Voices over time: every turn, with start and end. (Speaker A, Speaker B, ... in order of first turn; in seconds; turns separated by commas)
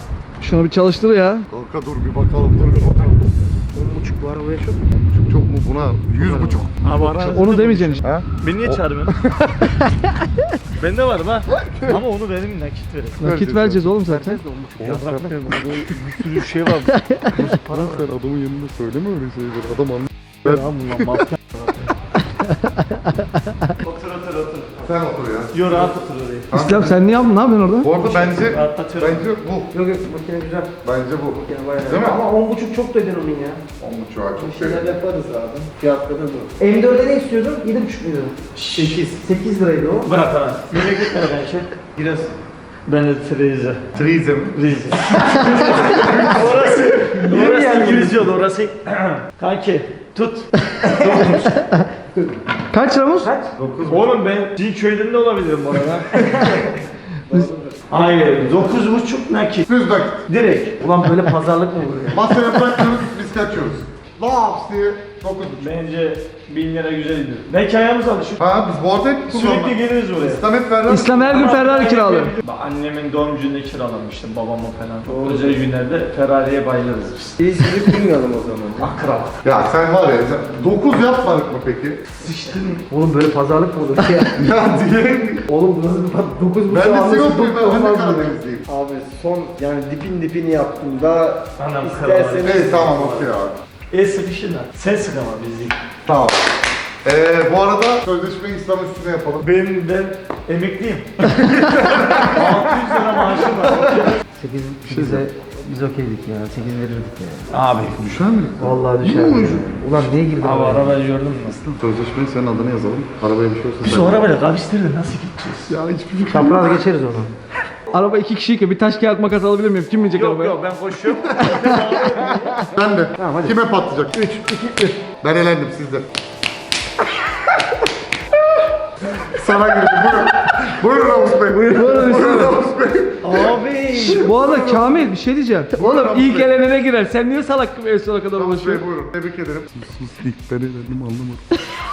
Speaker A: 0.4-1.5, Speaker B: 1.5-3.2, Speaker C: 3.7-4.8, Speaker B: 4.9-6.7, Speaker C: 6.2-6.7, Speaker D: 6.8-9.2, Speaker A: 7.0-8.0, Speaker B: 8.0-9.5, Speaker A: 9.8-10.1, Speaker D: 10.8-13.2, Speaker B: 11.6-12.0, Speaker A: 13.2-14.4, Speaker B: 13.2-13.9, Speaker C: 14.1-15.0, Speaker B: 14.8-15.9, Speaker D: 14.8-18.1, Speaker A: 16.9-17.3, Speaker B: 17.3-21.2, Speaker D: 20.4-21.9, Speaker A: 22.5-23.5, Speaker D: 23.8-24.9, Speaker B: 24.8-25.9, Speaker D: 25.5-26.5, Speaker B: 26.5-27.0, Speaker A: 26.5-27.9, Speaker B: 27.8-29.7, Speaker D: 28.0-29.2, Speaker C: 29.7-30.7, Speaker B: 30.8-32.2, Speaker C: 31.5-33.6, Speaker B: 33.8-34.9, Speaker E: 34.5-36.5, Speaker C: 36.6-40.1, Speaker D: 38.5-39.0, Speaker D: 40.0-42.3, Speaker D: 42.9-43.9, Speaker B: 43.9-44.6, Speaker D: 44.5-51.8, Speaker B: 45.3-47.0, Speaker C: 47.1-48.3, Speaker A: 50.6-51.0, Speaker A: 52.7-53.3, Speaker C: 53.2-53.5, Speaker B: 53.5-54.1, Speaker D: 53.9-56.8, Speaker E: 57.3-57.8, Speaker D: 57.9-59.7, Speaker B: 59.7-60.2, Speaker D: 60.3-60.8, Speaker C: 60.8-62.3, Speaker B: 62.1-65.7, Speaker D: 65.6-68.4, Speaker B: 68.4-71.4, Speaker D: 69.3-70.4, Speaker A: 70.9-72.3, Speaker D: 71.2-77.4, Speaker E: 77.4-78.9, Speaker D: 78.8-79.4, Speaker B: 79.4-82.0, Speaker D: 82.2-82.8, Speaker C: 82.9-84.3, Speaker B: 84.3-85.4, Speaker E: 85.5-87.2, Speaker C: 85.8-88.3, Speaker B: 86.7-88.6, Speaker E: 88.7-93.2, Speaker D: 91.6-93.1, Speaker B: 92.4-93.6, Speaker D: 93.9-95.8, Speaker B: 96.1-96.3, Speaker B: 97.0-99.5, Speaker D: 99.4-104.2, Speaker B: 101.4-104.0, Speaker C: 104.3-107.4, Speaker B: 104.8-105.2, Speaker D: 107.5-108.1, Speaker B: 108.0-110.1, Speaker C: 108.6-110.9, Speaker D: 110.4-111.6, Speaker B: 111.5-114.2, Speaker D: 113.8-115.7, Speaker B: 115.7-116.8, Speaker C: 116.3-117.3, Speaker A: 117.9-120.6, Speaker D: 120.1-122.6, Speaker A: 121.4-121.8, Speaker B: 121.5-121.8, Speaker B: 122.5-124.2, Speaker C: 123.2-125.0, Speaker B: 125.2-126.1, Speaker B: 129.3-133.5, Speaker A: 131.7-132.6, Speaker D: 133.2-134.3, Speaker A: 133.9-138.8, Speaker B: 134.1-135.0, Speaker B: 135.8-136.5, Speaker B: 138.3-141.4